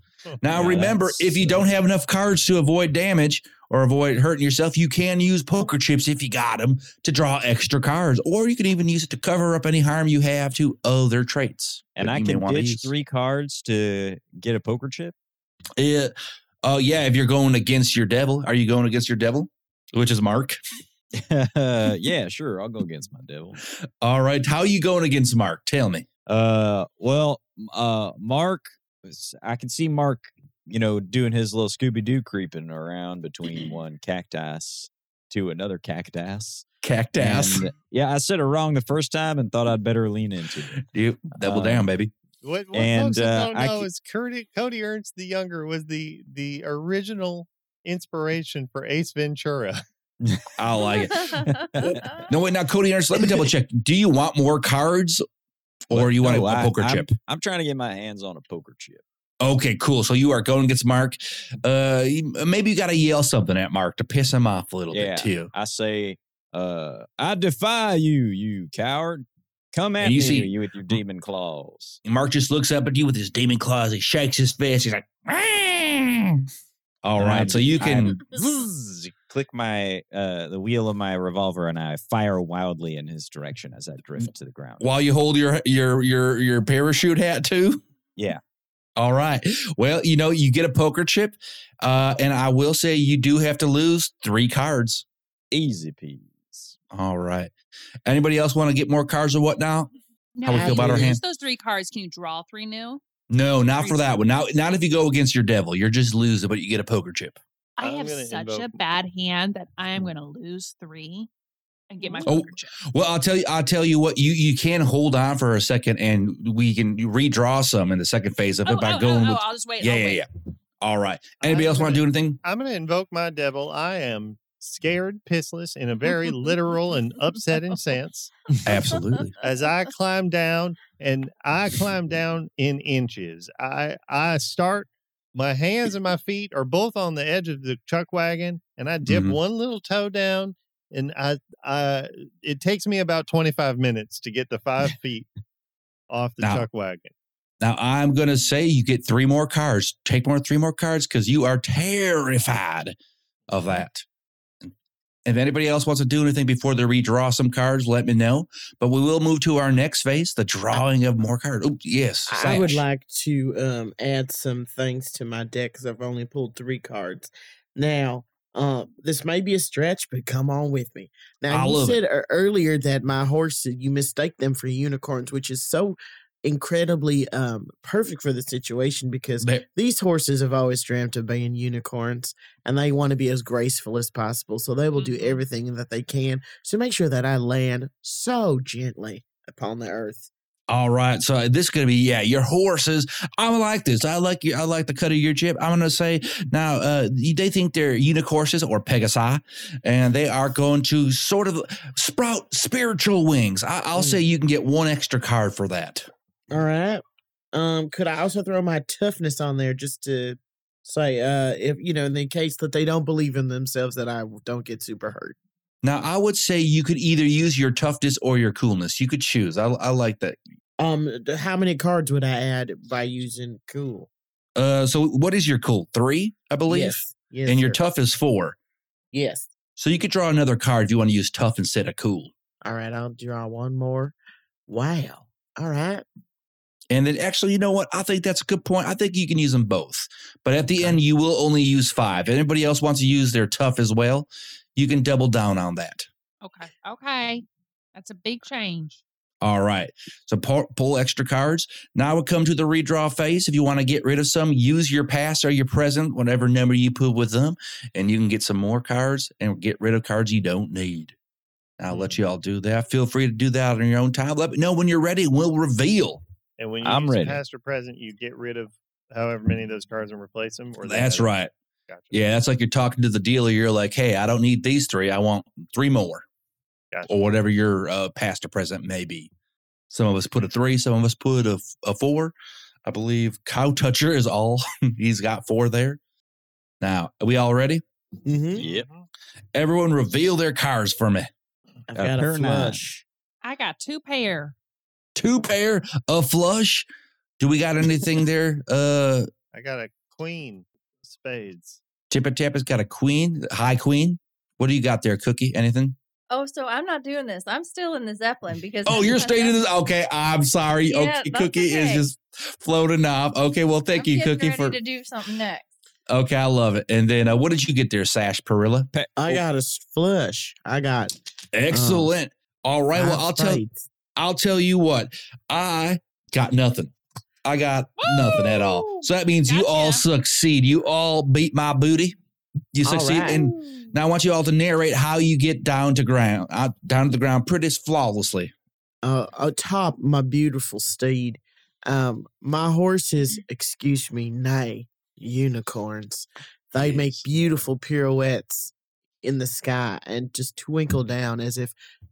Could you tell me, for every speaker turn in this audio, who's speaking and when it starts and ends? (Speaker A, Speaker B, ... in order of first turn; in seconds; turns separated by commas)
Speaker A: 0.4-12.9, Speaker B: 0.5-1.7, Speaker B: 11.9-15.1, Speaker A: 15.8-20.6, Speaker B: 21.1-23.6, Speaker A: 24.0-26.1, Speaker B: 26.2-36.6, Speaker A: 36.8-37.7, Speaker B: 37.2-40.8, Speaker A: 40.7-42.1, Speaker B: 41.4-41.9, Speaker C: 42.4-49.8, Speaker B: 42.7-43.9, Speaker B: 50.2-50.5, Speaker A: 50.6-55.2, Speaker D: 51.1-52.2, Speaker B: 51.3-52.3, Speaker A: 55.9-57.1, Speaker B: 55.9-59.0, Speaker A: 59.4-65.5, Speaker B: 64.9-72.0, Speaker A: 70.0-71.0, Speaker A: 72.0-76.4, Speaker A: 77.0-78.3, Speaker B: 77.2-84.8, Speaker A: 84.8-87.8, Speaker B: 88.2-88.4, Speaker A: 89.0-95.0, Speaker B: 95.5-96.8, Speaker A: 96.9-97.5, Speaker A: 98.0-99.9, Speaker E: 100.3-103.0, Speaker A: 100.4-101.2, Speaker F: 100.5-101.2, Speaker A: 103.3-107.4, Speaker E: 103.8-104.0, Speaker E: 107.8-111.3, Speaker C: 107.8-108.7, Speaker E: 111.9-112.8, Speaker D: 112.0-112.3, Speaker A: 112.2-120.3, Speaker E: 118.7-120.2, Speaker A: 120.8-122.4, Speaker C: 121.4-128.3, Speaker A: 128.6-129.4, Speaker C: 129.4-145.3, Speaker A: 139.1-139.4, Speaker C: 146.1-147.1, Speaker A: 147.6-152.9, Speaker A: 153.5-154.1, Speaker A: 155.2-162.8, Speaker F: 162.3-190.3, Speaker A: 171.5-172.0, Speaker E: 185.0-185.4, Speaker A: 190.7-206.1, Speaker F: 203.9-204.2, Speaker F: 206.5-215.3, Speaker A: 215.8-220.4, Speaker F: 220.8-224.1, Speaker A: 224.6-228.6, Speaker F: 226.7-227.8, Speaker F: 229.1-229.5, Speaker A: 229.8-232.3, Speaker F: 232.6-234.1, Speaker F: 234.7-236.0, Speaker A: 236.9-246.1, Speaker E: 246.4-249.0, Speaker A: 249.4-261.1, Speaker A: 261.8-266.2, Speaker C: 266.6-272.1, Speaker B: 266.8-267.4, Speaker A: 270.8-271.5, Speaker A: 272.1-276.2, Speaker A: 277.1-279.3, Speaker A: 279.9-282.3, Speaker A: 282.8-286.0, Speaker A: 286.8-287.8, Speaker F: 288.2-288.6, Speaker B: 288.6-288.9, Speaker C: 288.6-289.1, Speaker A: 289.5-291.3, Speaker F: 291.9-293.0, Speaker B: 291.9-292.8, Speaker E: 293.4-294.5, Speaker A: 295.1-296.9, Speaker A: 297.4-299.3, Speaker C: 299.5-301.8, Speaker A: 302.1-305.9, Speaker D: 306.3-309.6, Speaker A: 308.8-314.8, Speaker D: 310.9-312.1, Speaker D: 313.9-315.7, Speaker A: 316.1-318.9, Speaker B: 318.9-319.4, Speaker F: 319.2-321.1, Speaker A: 321.5-323.6, Speaker F: 321.7-322.1, Speaker F: 322.9-323.9, Speaker A: 324.1-326.9, Speaker A: 327.4-332.1, Speaker E: 328.0-330.0, Speaker A: 332.7-338.5, Speaker F: 332.8-333.5, Speaker F: 339.0-351.7